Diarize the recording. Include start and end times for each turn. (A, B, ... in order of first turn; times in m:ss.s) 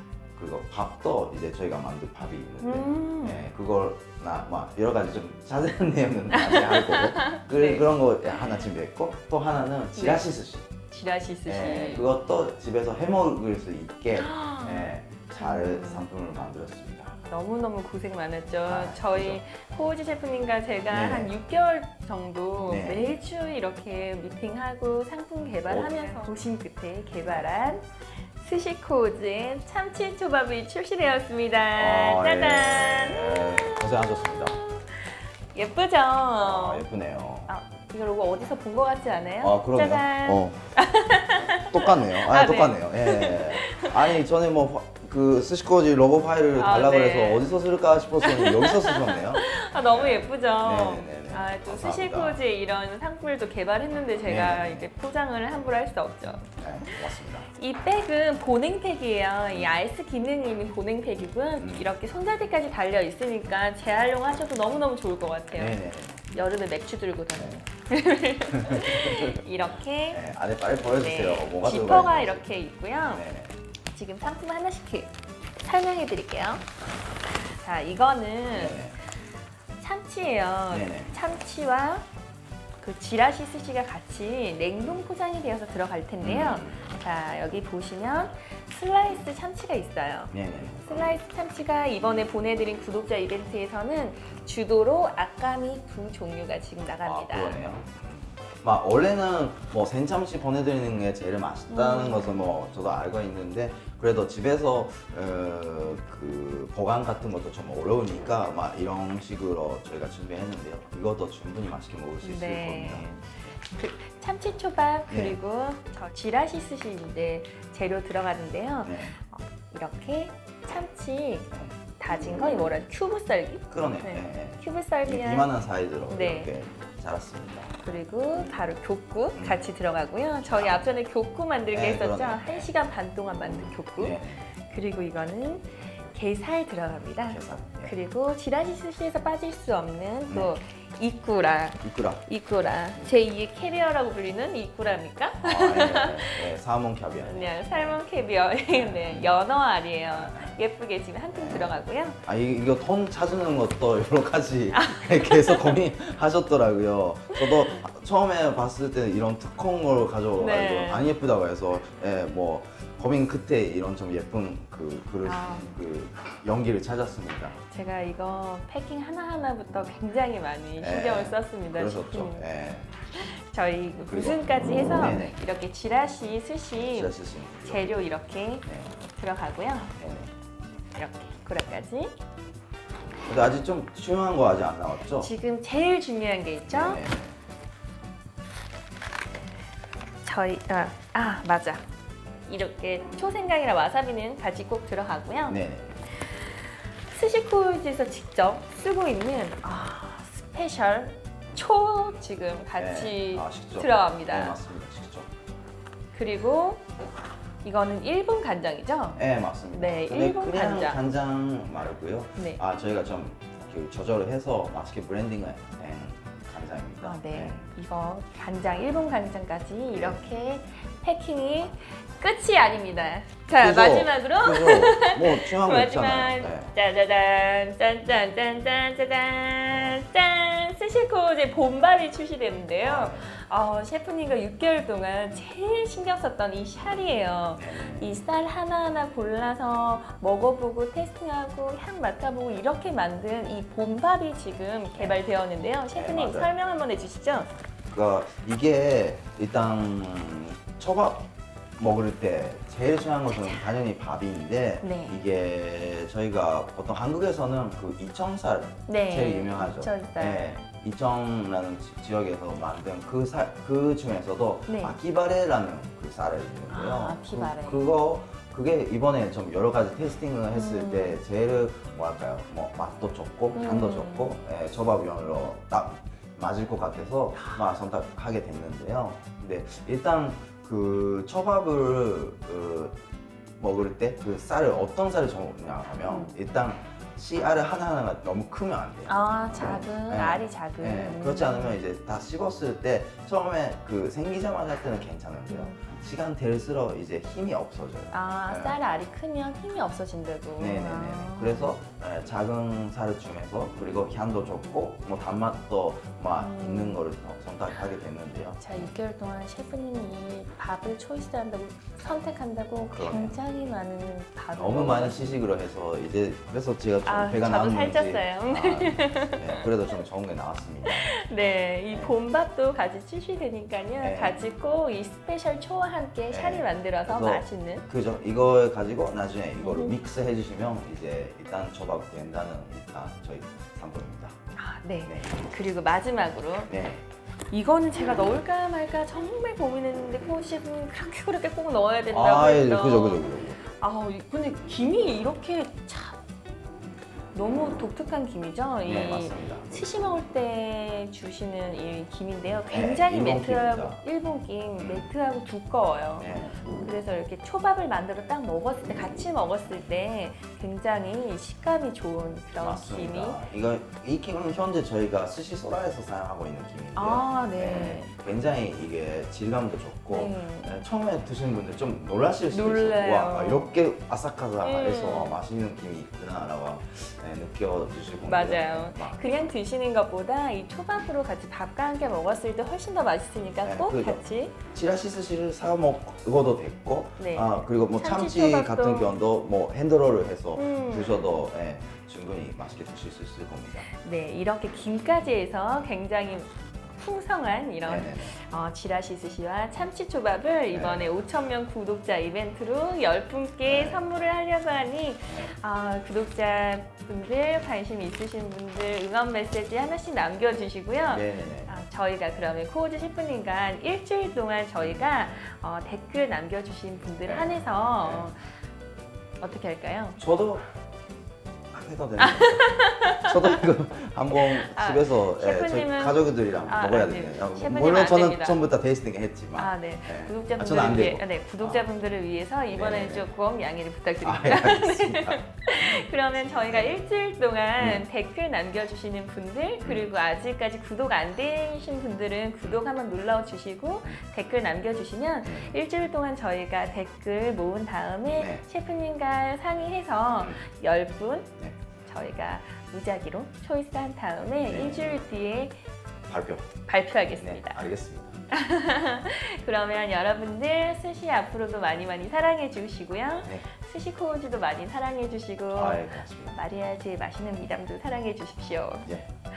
0:00.4-0:10.7 A
0:02.6-0:03.4 B
0:06.3-0:07.9 B
0:10.0-0:10.3 B
0:10.9-0:12.1 B
0:11.5-0:17.2 A
0:14.2-0:16.1 B
0:17.2-0:36.8 B
0:18.6-0:19.4 A
0:20.9-0:21.3 A
0:22.6-0:23.1 A
0:25.7-0:26.3 A
0:31.8-0:34.6 A
0:36.4-0:37.5 A
0:37.5-0:44.2 B
0:39.4-0:40.6 A
0:41.2-0:52.4 A
0:46.6-0:47.5 B
0:48.2-1:05.8 B
0:54.2-0:54.9 A
0:56.6-0:57.5 A
1:01.6-1:01.9 A
1:05.5-1:06.3 A
1:06.3-1:10.2 B
1:07.4-1:07.6 A
1:08.5-1:09.4 A
1:10.1-1:12.4 A
1:11.0-1:13.2 B
1:13.1-1:13.6 A
1:13.9-1:16.6 B
1:17.4-1:18.9 B
1:18.5-1:19.0 A
1:19.8-1:22.0 B
1:20.7-1:21.2 A
1:22.8-1:30.3 B
1:26.2-1:27.0 A
1:30.3-1:31.2 A
1:30.8-1:37.6 B
1:37.0-1:53.6 A
1:41.7-1:42.5 B
1:52.2-2:05.5 B
1:55.1-1:55.4 A
1:58.8-1:59.1 A
2:01.5-2:02.8 A
2:03.7-2:07.8 A
2:06.1-2:06.5 B
2:07.8-2:26.5 B
2:09.4-2:09.7 A
2:10.5-2:10.9 A
2:11.7-2:12.7 A
2:14.0-2:14.5 A
2:17.3-2:18.0 A
2:20.3-2:20.5 A
2:21.8-2:22.2 A
2:25.4-2:28.0 A
2:27.2-2:32.2 B
2:28.7-2:29.4 A
2:30.1-2:30.6 A
2:31.3-2:47.6 A
2:34.7-2:35.8 B
2:37.4-2:37.8 B
2:40.4-2:41.1 B
2:45.2-2:45.7 B
2:47.7-2:52.5 B
2:50.8-2:52.9 A
2:53.1-2:57.1 B
2:54.0-2:55.4 A
2:56.9-2:58.0 A
2:57.6-2:59.9 B
2:58.6-2:59.0 A
3:00.0-3:00.3 A
3:00.9-3:02.1 B
3:03.3-3:05.3 A
3:05.2-3:07.0 B
3:06.7-3:07.4 A
3:10.2-3:11.8 B
3:12.5-3:15.6 B
3:15.5-3:15.9 A
3:16.2-3:24.6 B
3:22.8-3:25.3 A
3:26.1-3:26.9 B
3:27.6-3:29.2 B
3:29.2-3:37.6 A
3:29.7-3:31.0 B
3:37.0-4:07.5 B
3:39.9-3:40.2 A
3:43.6-3:46.7 A
3:49.7-3:50.0 A
3:52.8-3:53.4 A
3:57.6-3:58.2 A
4:05.0-4:05.2 A
4:05.9-4:06.5 A
4:07.9-4:11.3 A
4:11.8-4:43.0 A
4:13.3-4:13.7 B
4:14.8-4:15.2 B
4:18.9-4:20.5 B
4:24.7-4:25.0 B
4:26.7-4:27.9 B
4:30.5-4:31.2 B
4:33.6-4:34.3 B
4:37.4-4:37.6 B
4:43.6-4:58.8 A
4:46.1-4:46.4 B
4:49.1-4:51.8 B
4:55.5-4:55.8 B
4:58.1-5:01.8 B
5:00.6-5:08.9 A
5:06.4-5:07.0 B
5:08.6-5:15.4 B
5:12.9-5:13.4 A
5:14.6-5:21.2 A
5:17.0-5:19.9 B
5:20.9-5:27.9 B
5:21.9-5:22.2 A
5:24.0-5:24.4 A
5:26.3-5:34.4 A
5:29.6-5:30.0 B
5:34.6-5:36.7 B
5:35.0-5:35.5 A
5:36.7-5:37.0 A
5:37.5-5:46.2 B
5:42.1-5:43.6 A
5:47.3-6:03.4 B
5:48.8-5:49.8 A
5:52.7-5:54.0 A
5:54.8-5:55.1 A
5:56.2-5:56.7 A
6:02.6-6:19.2 A
6:07.0-6:08.1 B
6:10.1-6:10.8 B
6:12.5-6:13.7 B
6:14.6-6:15.4 B
6:18.2-6:24.6 B
6:23.6-6:24.2 A
6:24.7-6:33.9 A
6:27.2-6:29.1 B
6:30.6-6:31.3 B
6:33.9-6:58.6 B
6:37.8-6:38.4 A
6:40.7-6:41.1 A
6:43.6-6:44.1 A
6:45.3-6:45.5 A
6:51.1-6:51.8 A
6:57.2-6:58.3 A
6:59.4-7:00.2 B
7:00.2-7:00.6 A
7:01.7-7:11.9 A
7:02.2-7:03.6 B
7:04.3-7:08.6 B
7:09.6-7:31.5 B
7:12.7-7:13.3 A
7:14.2-7:17.0 A
7:17.8-7:18.0 A
7:19.8-7:20.1 A
7:25.4-7:25.8 A
7:28.3-7:28.6 A
7:32.0-7:35.8 B
7:34.6-7:35.2 A
7:36.3-7:36.7 A
7:36.8-7:37.8 B
7:37.4-7:38.4 A
7:38.5-7:49.1 B
7:45.7-7:46.6 A